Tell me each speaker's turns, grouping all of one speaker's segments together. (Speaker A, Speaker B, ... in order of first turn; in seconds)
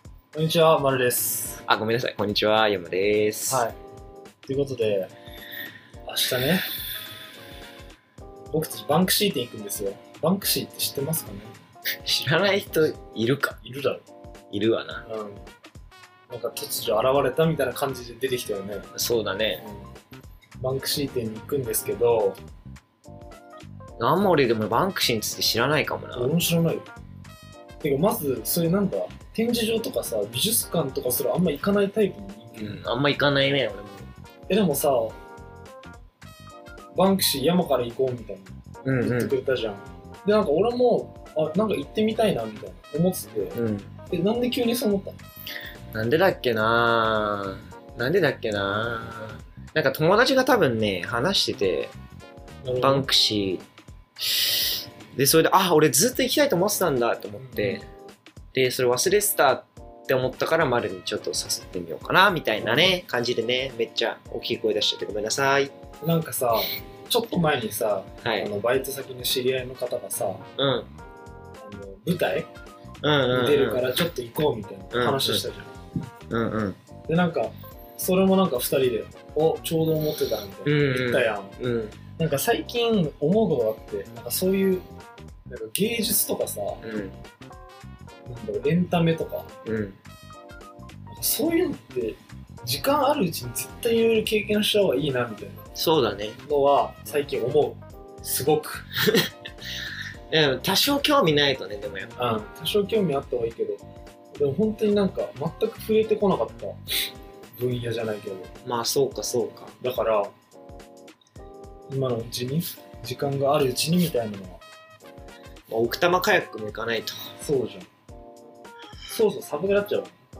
Speaker A: 0.3-1.6, 3.5-3.8, 4.5-5.1, 6.1-6.7, 8.5-11.5, 13.6-14.1, 15.1-15.4, 16.3-18.9, 19.6-19.9, 20.6-22.4, 26.2-26.9, 27.8-32.8, 34.5-35.2, 36.9-43.6, 44.1-45.2, 52.6-53.1, 57.4-57.8, 62.6-63.0, 66.0-70.5, 71.6-72.5, 73.3-75.7, 77.1-81.6, 82.2-84.8, 85.5-86.8, 88.3-89.5, 91.1-95.7, 96.4-98.9, 102.2-103.8, 104.3-106.8, 107.6-108.5, 109.8-110.3, 111.9-114.6, 117.4-117.9, 119.1-120.2
Speaker B: 1.7-3.7, 12.1-13.6, 14.5-15.1, 18.9-19.6, 24.0-26.3, 32.5-34.1, 38.9-39.4, 43.5-43.9, 45.9-51.9, 52.8-53.6, 54.4-57.8, 58.5-65.7, 68.2-68.5, 70.6-70.9, 73.0-73.9, 74.9-75.4, 76.3-76.8, 80.7-82.0, 86.8-87.2, 89.7-90.0, 95.8-96.4, 100.3-102.2, 108.6-109.7, 115.7-117.3